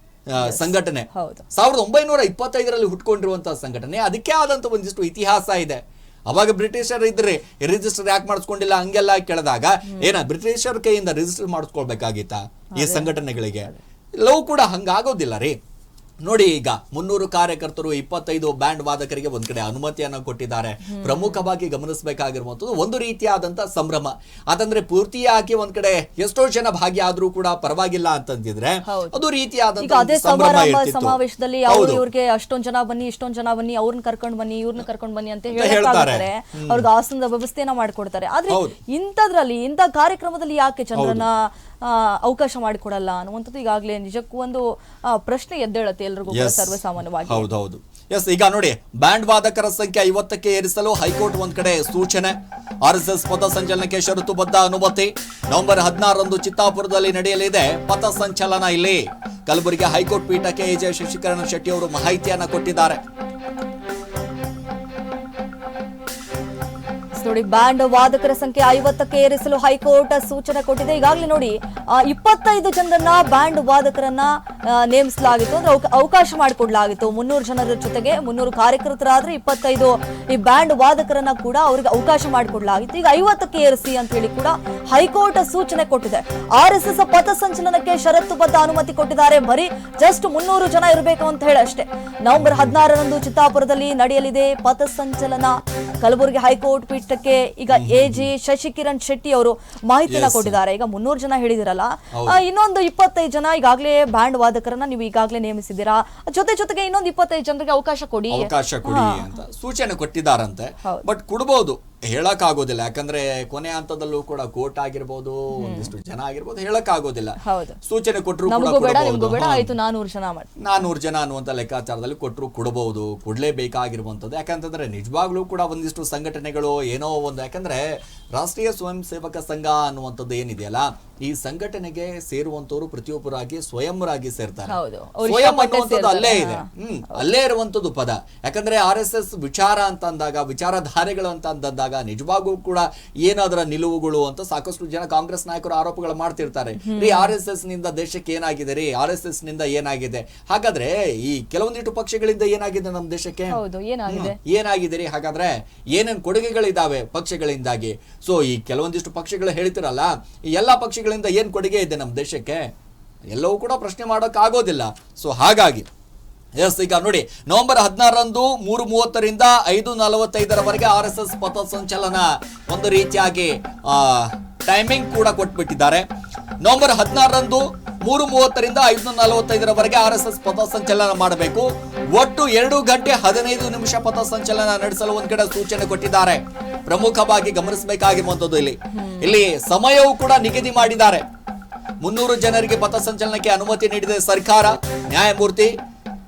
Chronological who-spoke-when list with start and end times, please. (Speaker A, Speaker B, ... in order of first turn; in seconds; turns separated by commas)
Speaker A: 0.3-15.6, Speaker B: 0.4-1.4, Speaker B: 12.8-13.2, Speaker A: 16.2-32.0, Speaker B: 20.9-21.5, Speaker B: 28.8-29.2, Speaker B: 29.8-47.5, Speaker A: 35.5-36.9, Speaker A: 38.5-38.8, Speaker A: 41.0-41.2, Speaker A: 46.3-63.0, Speaker B: 67.2-109.3, Speaker A: 92.3-92.8, Speaker A: 97.7-98.3, Speaker A: 100.1-100.6, Speaker A: 102.1-102.4, Speaker A: 108.3-119.7, Speaker B: 115.5-115.9, Speaker B: 117.4-117.8, Speaker B: 118.5-120.5, Speaker A: 120.6-162.7, Speaker B: 134.7-137.2, Speaker B: 146.8-147.3, Speaker B: 153.5-154.4, Speaker A: 163.3-165.9, Speaker A: 166.6-176.1, Speaker A: 176.6-191.2, Speaker B: 188.9-189.4, Speaker A: 192.0-195.8